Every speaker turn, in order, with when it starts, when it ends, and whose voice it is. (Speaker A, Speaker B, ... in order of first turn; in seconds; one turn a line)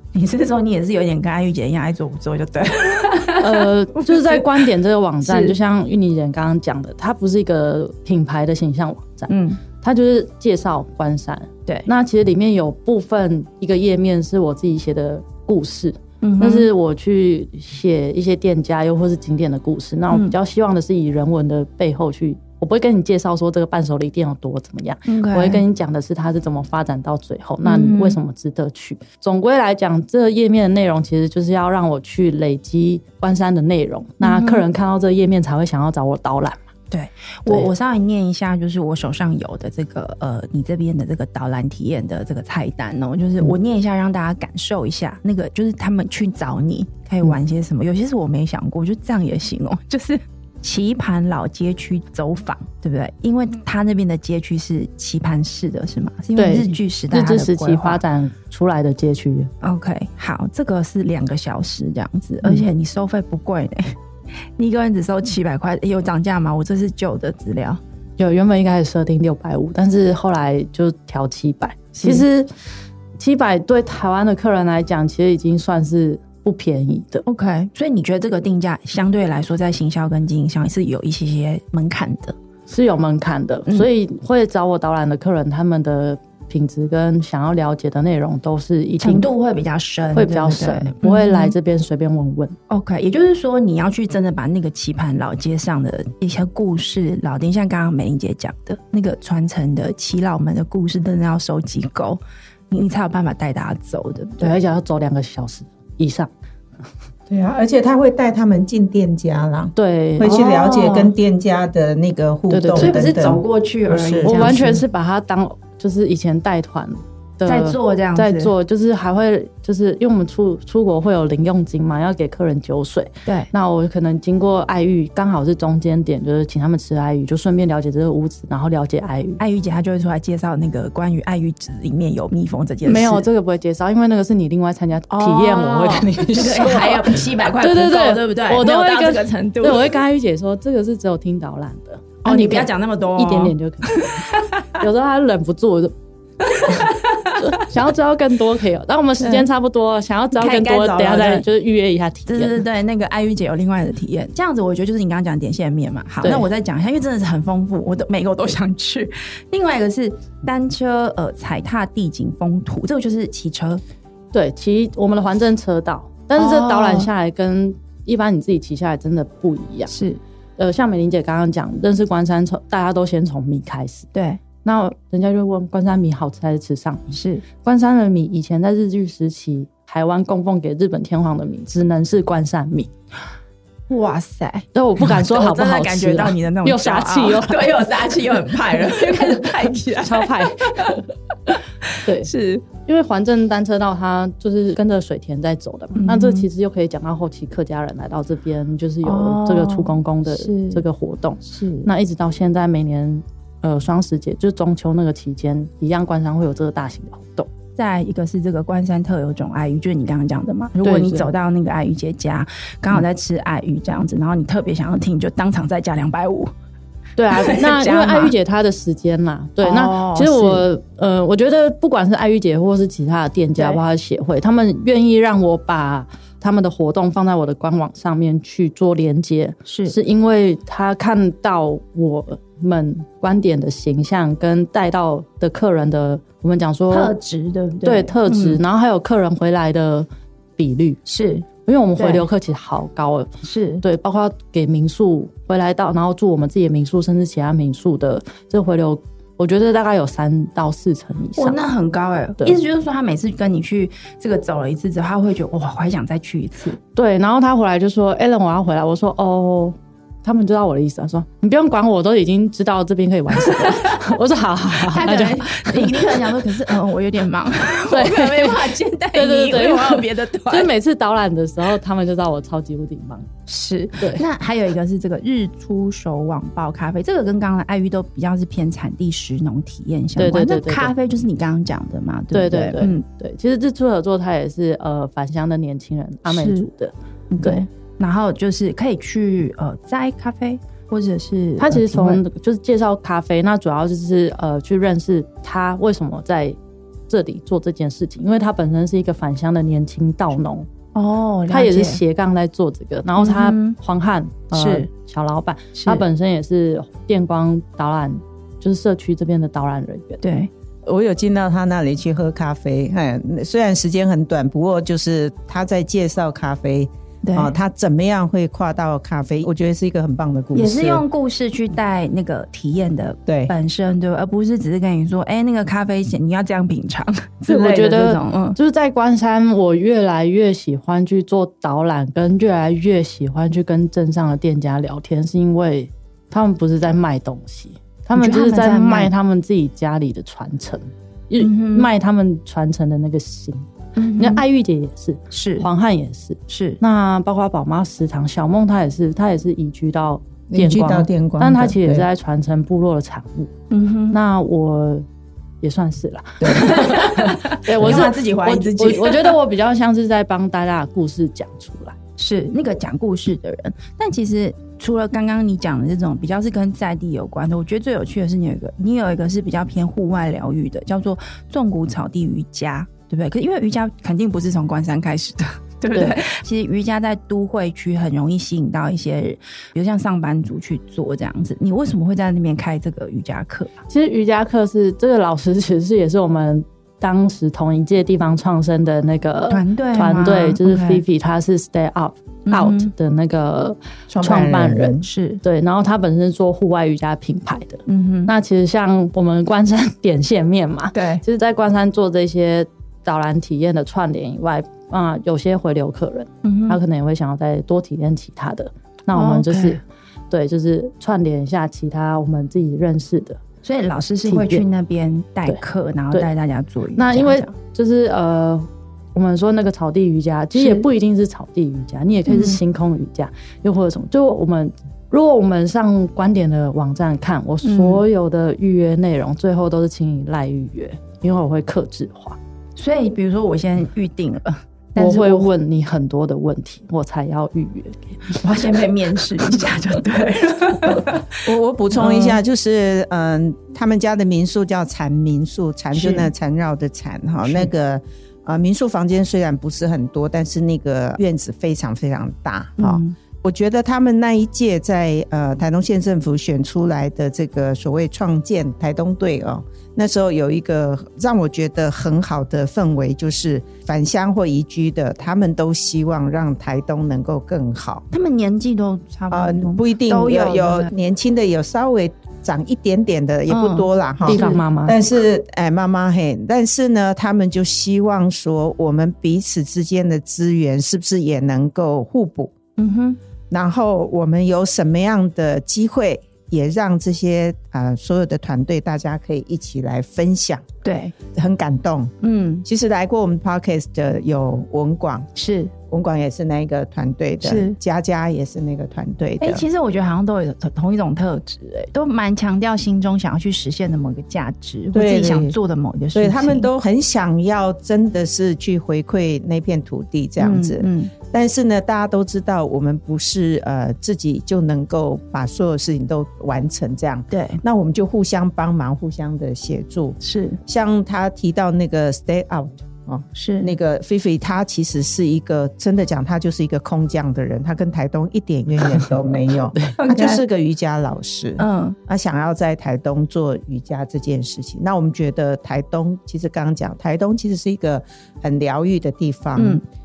Speaker A: 0.1-4.7
Speaker B: 3.4-36.6
Speaker A: 5.2-5.5
Speaker A: 9.3-9.6
Speaker A: 16.2-16.7
Speaker A: 25.1-25.6
Speaker A: 27.6-28.2
Speaker A: 34.2-34.6
Speaker A: 36.9-58.0
Speaker B: 56.4-59.5
Speaker A: 59.6-64.0
Speaker A: 64.6-67.8
Speaker B: 68.2-72.5
Speaker A: 72.0-72.2
Speaker B: 73.2-77.2
Speaker A: 77.3-82.4
Speaker B: 82.7-89.3
Speaker A: 89.0-91.5
Speaker B: 90.2-92.6
Speaker A: 92.7-102.2
Speaker A: 102.7-104.6
Speaker B: 104.4-106.3
Speaker C: 107.3-114.6
Speaker B: 109.8-110.5
Speaker A: 110.2-111.1
Speaker B: 112.5-113.0
Speaker A: 112.8-114.8
Speaker B: 114.2-129.4
Speaker A: 117.5-118.5
Speaker A: 129.4-133.2
Speaker B: 132.8-144.3
Speaker A: 135.1-139.9
Speaker A: 142.2-144.7
Speaker B: 144.8-145.9
Speaker A: 146.4-147.4
Speaker B: 146.6-152.6
Speaker A: 149.2-149.5
Speaker A: 150.3-151.5
Speaker A: 152.3-163.8
Speaker B: 156.2-156.5
Speaker B: 164.3-169.9
Speaker A: 166.4-167.1
Speaker A: 169.9-170.2
Speaker B: 170.6-174.1
Speaker A: 174.1-174.4
Speaker B: 174.6-182.9
Speaker A: 177.1-177.4
Speaker A: 183.9-191.0
Speaker B: 184.7-187.8
Speaker B: 189.1-189.4
Speaker B: 190.0-191.0
Speaker A: 191.9-192.7
Speaker B: 192.0-192.3
Speaker B: 192.8-207.5
Speaker A: 196.0-196.5
Speaker A: 199.0-200.8
Speaker A: 201.5-201.9
Speaker A: 207.8-216.5
Speaker B: 210.8-211.3
Speaker B: 217.2-237.1
Speaker A: 217.3-218.3
Speaker A: 219.6-220.7
Speaker A: 223.6-223.8
Speaker A: 229.7-230.0
Speaker A: 236.9-238.6
Speaker B: 237.8-241.0
Speaker A: 241.1-241.5
Speaker B: 241.7-243.3
Speaker A: 242.0-242.2
Speaker A: 243.4-243.8
Speaker B: 243.8-251.6
Speaker A: 251.4-256.8
Speaker B: 257.0-266.2
Speaker A: 263.4-264.0
Speaker A: 264.8-270.7
Speaker B: 267.9-273.3
Speaker A: 273.5-283.0
Speaker B: 280.2-280.9
Speaker B: 282.3-287.7
Speaker A: 286.3-286.7
Speaker A: 287.3-292.2
Speaker B: 291.6-296.6
Speaker B: 297.1-300.7
Speaker A: 300.9-302.0
Speaker B: 301.5-310.2
Speaker A: 303.2-303.8
Speaker A: 304.5-304.9
Speaker A: 305.8-306.0
Speaker A: 310.2-310.5
Speaker C: 310.9-321.1
Speaker A: 317.2-317.5
Speaker A: 320.5-328.6
Speaker C: 323.3-323.5
Speaker B: 327.5-353.5
Speaker A: 338.2-339.1
Speaker A: 341.4-341.9
Speaker A: 344.0-344.4
Speaker A: 345.3-345.7
Speaker A: 346.5-346.8
Speaker C: 350.5-352.1
Speaker A: 353.7-354.2
Speaker B: 354.1-355.1
Speaker B: 355.6-362.0
Speaker A: 356.4-359.4
Speaker A: 362.2-383.8
Speaker B: 375.9-376.2
Speaker B: 383.9-413.4
Speaker A: 389.5-391.0
Speaker A: 392.5-392.9
Speaker C: 394.1-395.1
Speaker A: 395.0-395.4
Speaker A: 397.9-398.3
Speaker A: 400.9-401.2
Speaker A: 406.4-406.8
Speaker A: 409.1-409.8
Speaker A: 413.6-417.5
Speaker B: 414.2-414.6
Speaker B: 417.0-432.4
Speaker A: 420.6-420.9
Speaker A: 422.3-422.6
Speaker A: 427.6-428.0
Speaker A: 432.8-435.5
Speaker B: 435.0-438.4
Speaker A: 438.4-442.4
Speaker C: 441.4-468.0
Speaker A: 445.9-446.3
Speaker A: 452.8-453.1
Speaker A: 468.1-470.9
Speaker C: 469.3-482.6
Speaker A: 473.5-474.6
Speaker B: 474.3-475.0
Speaker A: 482.8-483.2
Speaker C: 483.5-490.7
Speaker A: 490.8-491.1
Speaker C: 491.3-492.1
Speaker A: 492.2-492.6
Speaker C: 492.6-495.3
Speaker A: 495.4-495.7
Speaker C: 495.9-499.6
Speaker A: 497.4-497.8
Speaker A: 499.4-506.7
Speaker C: 504.9-505.6
Speaker C: 506.1-539.8
Speaker A: 510.4-511.1
Speaker A: 517.3-517.6
Speaker A: 520.2-520.6
Speaker A: 523.4-523.7
Speaker A: 530.0-530.4
Speaker A: 531.6-532.0
Speaker A: 539.6-539.8